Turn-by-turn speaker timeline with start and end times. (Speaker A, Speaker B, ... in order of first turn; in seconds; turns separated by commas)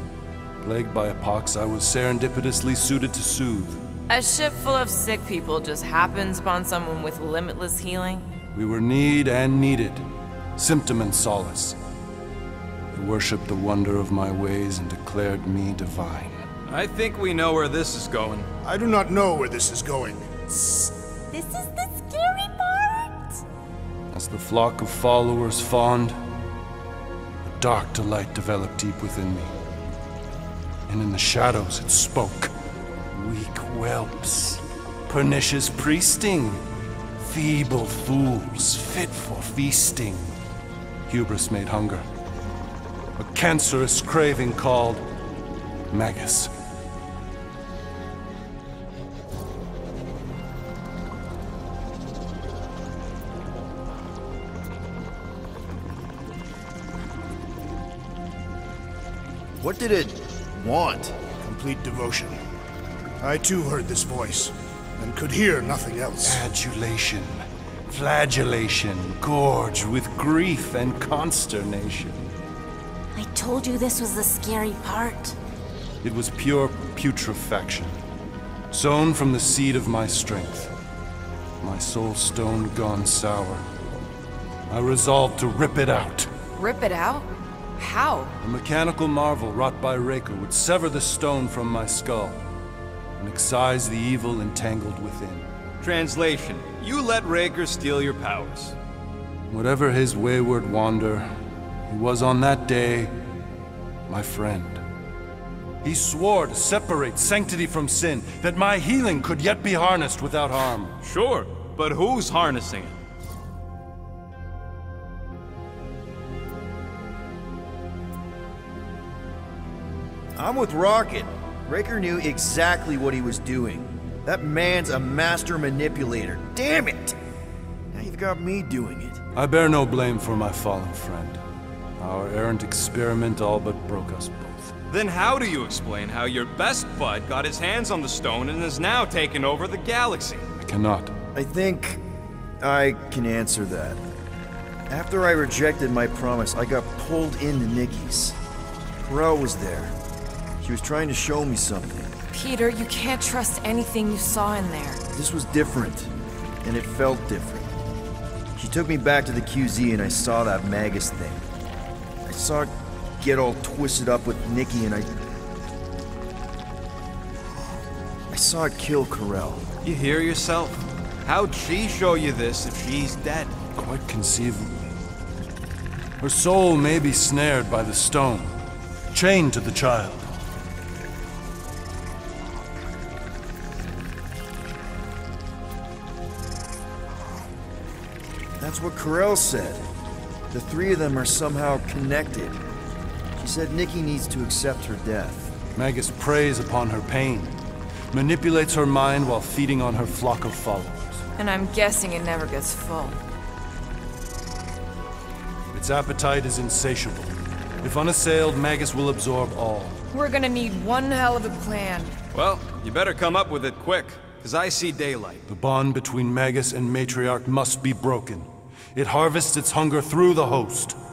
Speaker A: 0.6-3.8, Speaker B: 4.1-8.3, Speaker A: 8.5-11.8, Speaker A: 12.9-16.4, Speaker C: 16.7-18.5, Speaker D: 18.6-20.3, Speaker E: 20.5-23.4, Speaker A: 24.1-26.2, Speaker A: 27.4-29.5, Speaker A: 30.9-32.5, Speaker A: 33.1-36.6, Speaker A: 37.2-40.3, Speaker A: 41.1-42.0, Speaker A: 43.2-45.1, Speaker A: 45.9-46.5, Speaker F: 59.6-61.2, Speaker D: 61.4-62.4, Speaker D: 63.2-66.4, Speaker A: 66.2-72.2, Speaker E: 73.2-75.4, Speaker A: 76.0-78.0, Speaker A: 78.7-80.7, Speaker A: 81.6-83.7, Speaker A: 84.7-86.3, Speaker B: 86.6-88.3, Speaker A: 88.4-92.4, Speaker A: 93.2-95.5, Speaker C: 95.8-98.8, Speaker A: 99.5-101.3, Speaker A: 101.9-103.1, Speaker A: 104.1-104.8, Speaker A: 105.8-111.0, Speaker C: 111.0-113.0, Speaker F: 120.4-127.2, Speaker F: 127.9-129.2, Speaker A: 129.3-131.4, Speaker A: 132.0-134.7, Speaker C: 134.9-140.5, Speaker A: 140.6-141.1, Speaker F: 141.3-142.0, Speaker F: 142.6-144.0, Speaker F: 144.9-148.4, Speaker F: 149.0-150.0, Speaker F: 150.6-152.1, Speaker B: 152.3-155.0, Speaker F: 155.1-157.7, Speaker F: 158.6-161.4, Speaker F: 162.3-165.2, Speaker F: 168.3-169.7, Speaker C: 169.8-173.6, Speaker A: 173.8-174.9, Speaker A: 176.2-178.5, Speaker A: 179.1-180.3, Speaker F: 188.6-189.9, Speaker F: 190.5-192.6, Speaker F: 193.4-195.5, Speaker A: 195.8-197.6, Speaker A: 198.1-201.2, Speaker B: 201.4-203.2, Speaker A: 205.7-210.0, Speaker B: 210.1-212.2, Speaker C: 212.3-215.4, Speaker A: 215.5-221.0